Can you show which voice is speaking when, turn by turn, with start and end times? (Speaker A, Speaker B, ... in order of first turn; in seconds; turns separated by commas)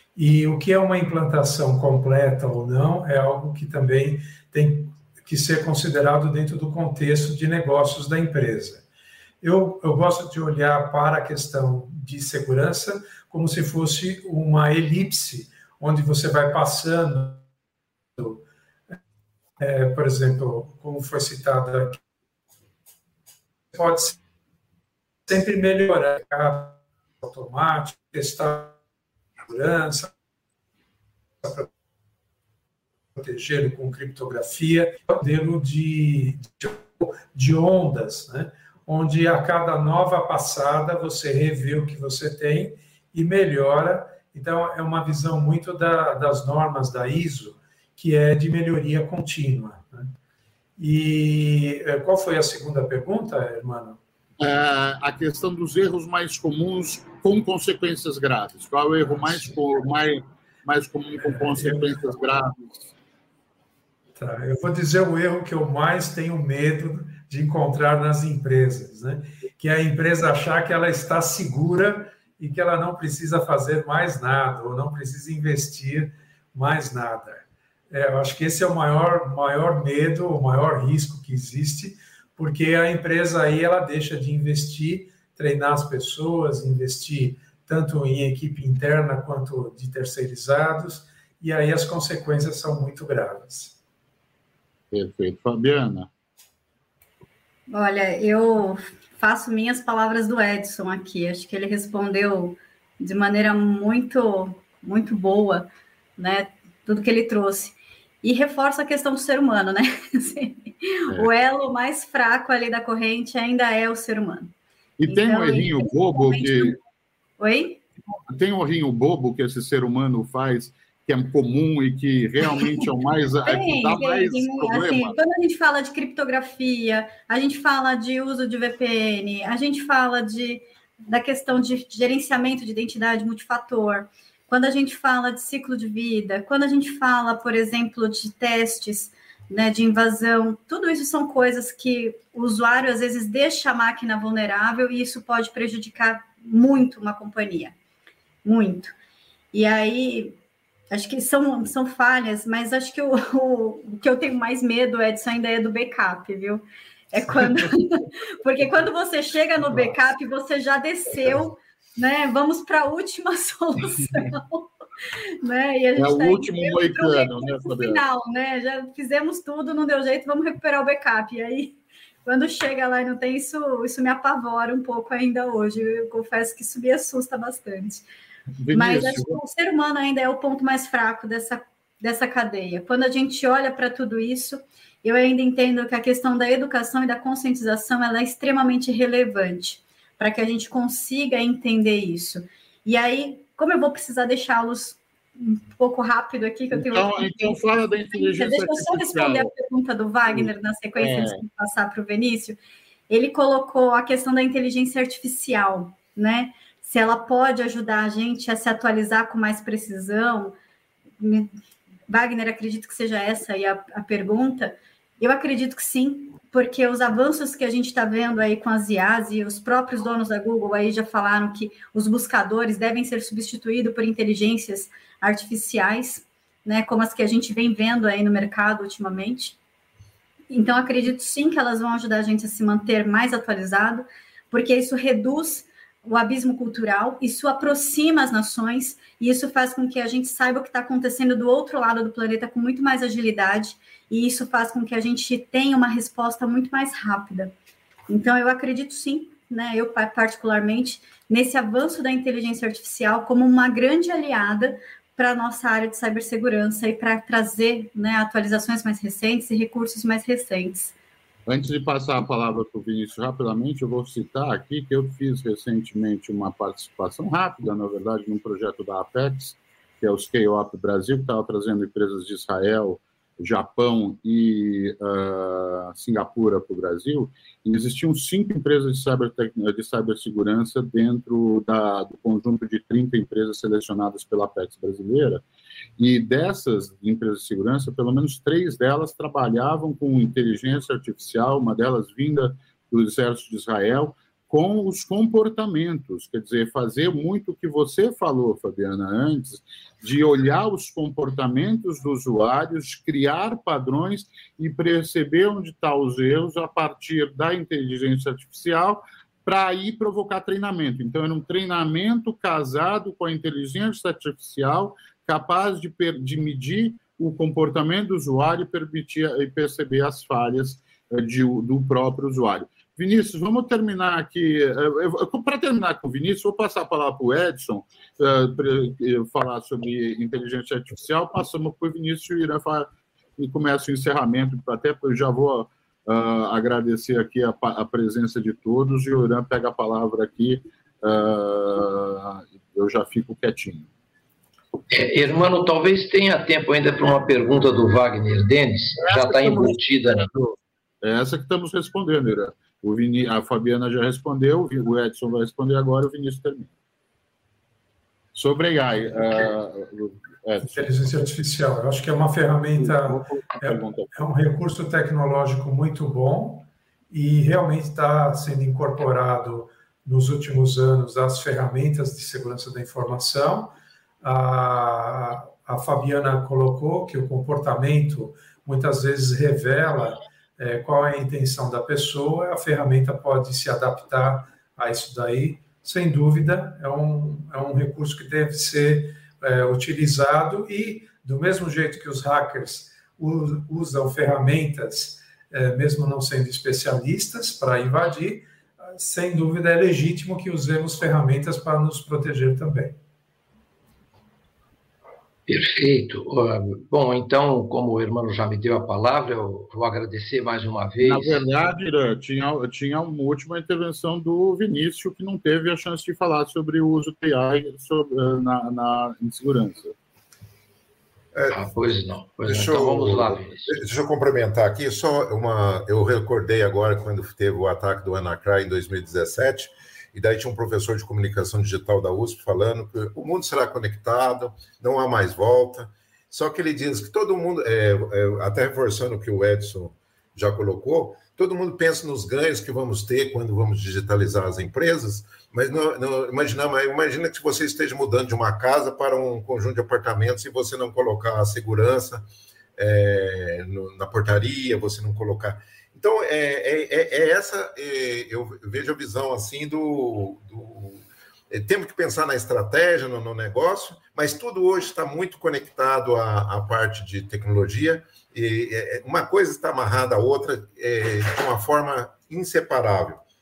Speaker A: 0.1-8.8, Speaker A: 9.4-17.4, Speaker A: 18.2-19.0, Speaker A: 19.6-22.0, Speaker A: 23.7-24.2, Speaker A: 25.3-28.8, Speaker A: 29.4-30.1, Speaker A: 31.4-31.7, Speaker A: 33.1-50.1, Speaker A: 50.8-54.0, Speaker B: 54.4-62.9, Speaker A: 59.2-59.5, Speaker A: 61.2-62.0, Speaker A: 64.2-93.8, Speaker B: 94.9-96.1, Speaker C: 97.7-114.5, Speaker B: 115.0-116.8, Speaker C: 115.1-116.8, Speaker C: 117.4-117.8, Speaker B: 118.3-125.2, Speaker C: 123.4-147.7, Speaker C: 148.4-148.9, Speaker C: 149.5-150.3, Speaker C: 150.9-178.1, Speaker B: 165.9-168.0, Speaker B: 178.6-179.4, Speaker C: 178.7-197.6, Speaker B: 196.7-199.5, Speaker C: 198.1-202.6, Speaker B: 200.3-201.4, Speaker C: 203.1-210.6, Speaker C: 211.2-211.5, Speaker C: 212.1-229.6, Speaker C: 230.5-247.5, Speaker C: 248.1-260.9, Speaker B: 261.5-285.4, Speaker B: 286.0-343.9, Speaker D: 344.9-350.3, Speaker B: 349.0-356.7, Speaker B: 358.3-360.9, Speaker A: 360.6-403.0, Speaker B: 362.8-364.1, Speaker D: 405.5-411.4, Speaker B: 411.0-419.9, Speaker E: 421.3-421.6, Speaker D: 421.5-423.8, Speaker E: 422.4-452.2, Speaker E: 452.8-473.2